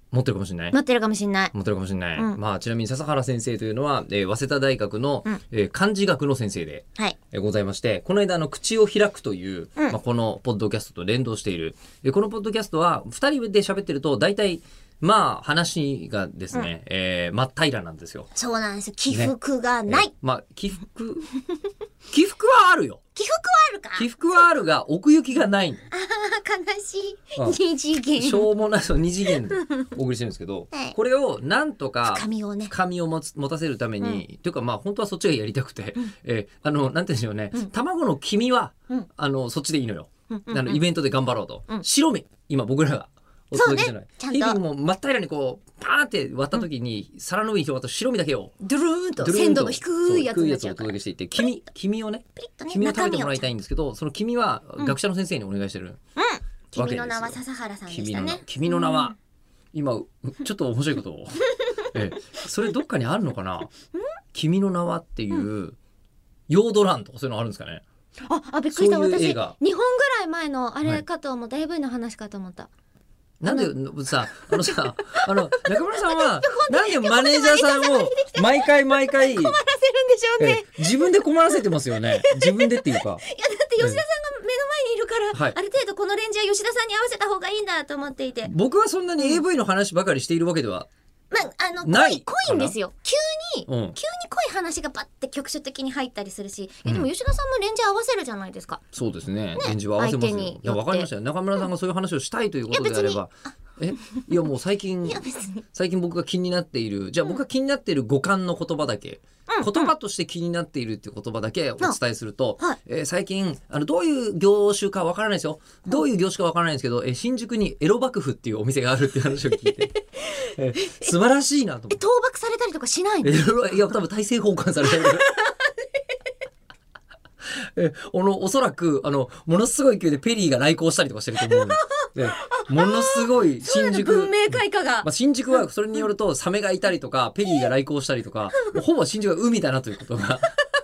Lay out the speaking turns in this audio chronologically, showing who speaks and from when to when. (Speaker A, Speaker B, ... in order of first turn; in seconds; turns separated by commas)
Speaker A: 0.1-0.8, Speaker B: 0.7-1.5, Speaker A: 1.5-18.3, Speaker B: 18.4-20.1, Speaker A: 19.9-21.3, Speaker A: 22.1-23.0, Speaker B: 23.1-24.1, Speaker A: 23.9-25.8, Speaker B: 25.9-28.5, Speaker A: 28.2-48.5, Speaker B: 29.5-29.9, Speaker B: 32.0-32.7, Speaker B: 40.3-40.8, Speaker B: 43.5-44.6, Speaker B: 48.6-51.5, Speaker A: 49.2-56.0, Speaker B: 52.4-53.5, Speaker B: 56.2-59.2, Speaker A: 56.8-59.1, Speaker A: 59.7-63.7, Speaker A: 64.3-65.8, Speaker A: 66.5-67.8, Speaker B: 68.2-72.7, Speaker A: 68.7-69.6, Speaker A: 73.4-79.6, Speaker B: 73.5-73.7, Speaker B: 74.3-88.5, Speaker A: 80.4-83.2, Speaker A: 88.4-90.9, Speaker B: 91.3-98.8, Speaker A: 91.8-92.8, Speaker A: 93.7-94.0, Speaker A: 98.9-122.0, Speaker B: 99.6-101.1, Speaker B: 102.7-103.2, Speaker B: 105.0-105.6, Speaker B: 109.5-109.9, Speaker B: 120.4-121.1, Speaker B: 121.9-123.5, Speaker A: 123.2-125.2, Speaker B: 124.8-125.9, Speaker A: 127.5-140.6, Speaker B: 131.4-135.6, Speaker B: 138.5-138.8